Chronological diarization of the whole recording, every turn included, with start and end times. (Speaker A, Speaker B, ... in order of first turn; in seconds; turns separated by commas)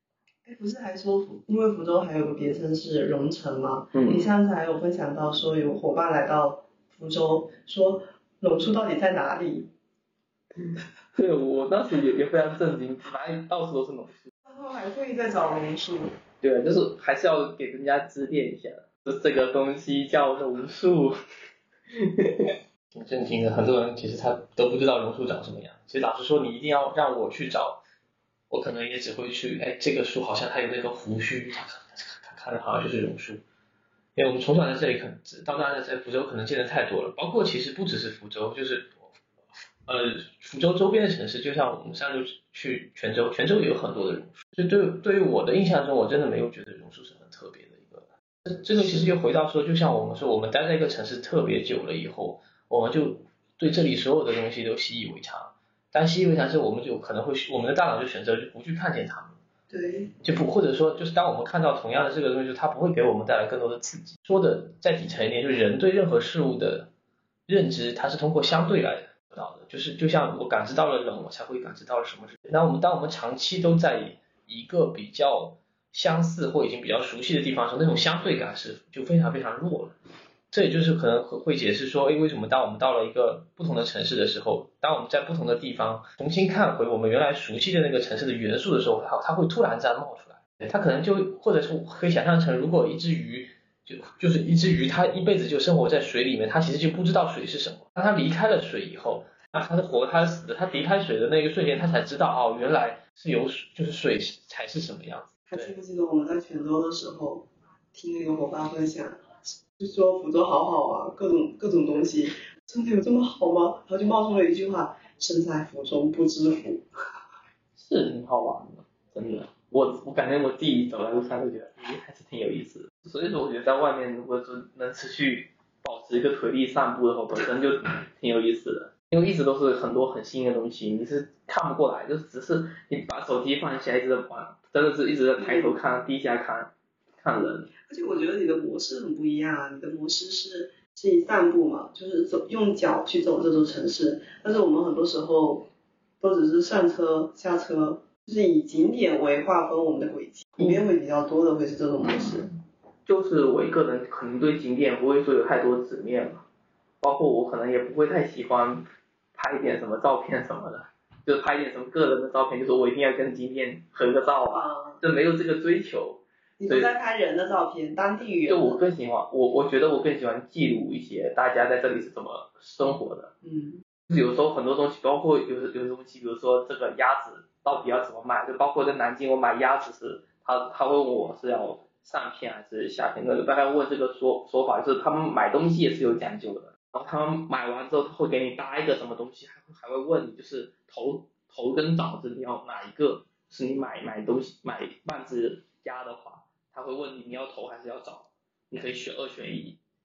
Speaker A: 0.4-9.7, Speaker B: 3.9-4.3, Speaker B: 10.6-14.3, Speaker A: 14.4-16.1, Speaker B: 16.4-21.1, Speaker B: 21.9-22.5, Speaker C: 22.9-27.8, Speaker C: 28.5-33.4, Speaker C: 34.1-39.1, Speaker C: 39.9-59.4, Speaker A: 59.7-60.1, Speaker C: 60.2-66.9, Speaker C: 67.5-79.9, Speaker C: 80.5-105.7, Speaker A: 105.5-116.8, Speaker B: 117.8-137.7, Speaker A: 135.4-135.7, Speaker A: 137.8-145.7, Speaker A: 146.2-152.5, Speaker B: 153.1-156.4, Speaker B: 157.0-166.9, Speaker A: 164.5-165.0, Speaker A: 166.6-168.8, Speaker B: 168.5-173.3, Speaker A: 173.4-173.8, Speaker B: 174.1-199.8